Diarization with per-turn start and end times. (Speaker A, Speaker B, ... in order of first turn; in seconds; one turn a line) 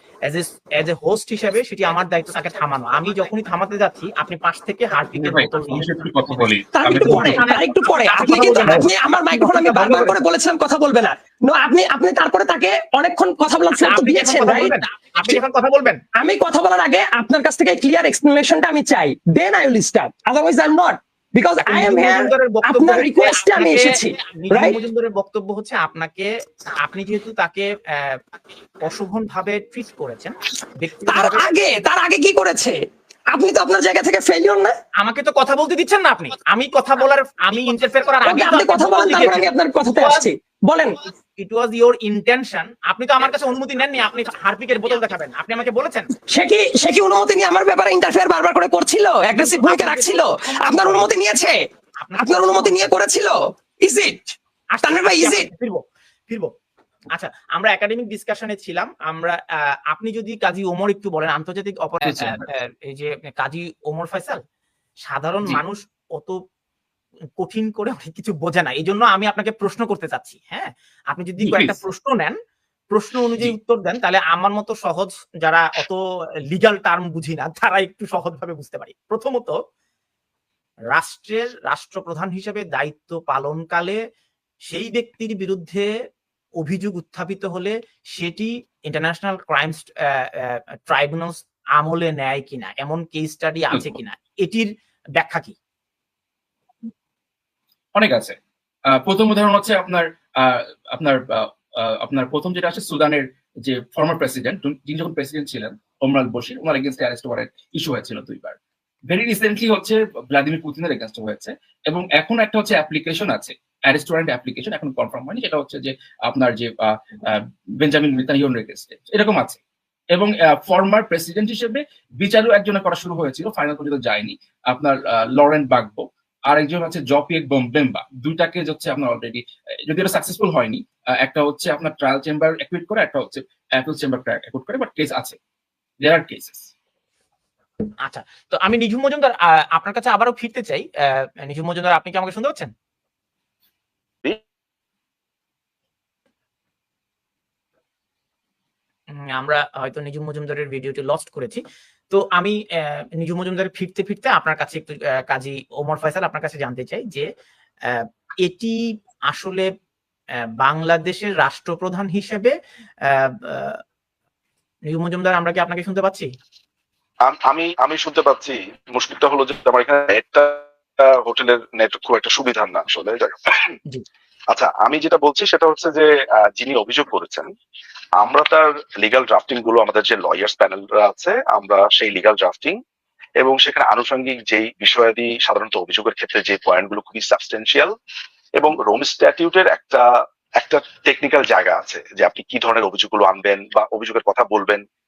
Speaker A: 0.3-6.4
Speaker B: 5.1-7.5
Speaker C: 6.7-14.7
Speaker A: 7.0-10.2
Speaker A: 13.8-16.0
Speaker C: 16.2-24.8
Speaker A: 21.7-28.2
Speaker A: 28.8-31.5
Speaker C: 31.1-32.8
Speaker C: 33.3-34.7
Speaker A: 35.0-40.3
Speaker C: 38.2-41.0
Speaker A: 41.4-46.1
Speaker C: 46.3-51.6
Speaker A: 49.4-51.1
Speaker A: 52.0-52.9
Speaker C: 52.2-55.5
Speaker A: 54.8-56.5
Speaker A: 57.1-64.4
Speaker B: 62.0-62.5
Speaker A: 65.1-66.4
Speaker A: 67.4-72.4
Speaker B: 71.4-71.8
Speaker A: 72.9-76.0
Speaker A: 76.5-79.5
Speaker A: 80.9-84.0
Speaker A: 84.7-85.9
Speaker A: 86.6-95.5
Speaker B: 98.0-98.3
Speaker B: 98.9-108.6
Speaker B: 109.1-119.6
Speaker B: 120.1-135.4
Speaker B: 136.0-136.7
Speaker A: 138.0-142.7
Speaker A: 149.3-157.3
Speaker A: 157.9-158.8
Speaker A: 159.3-159.7
Speaker A: 160.6-162.5
Speaker A: 163.1-163.8
Speaker A: 164.9-166.3
Speaker D: 167.3-173.7
Speaker D: 174.5-177.5
Speaker D: 178.2-182.8
Speaker D: 183.4-187.9
Speaker D: 188.6-190.1
Speaker D: 190.6-194.8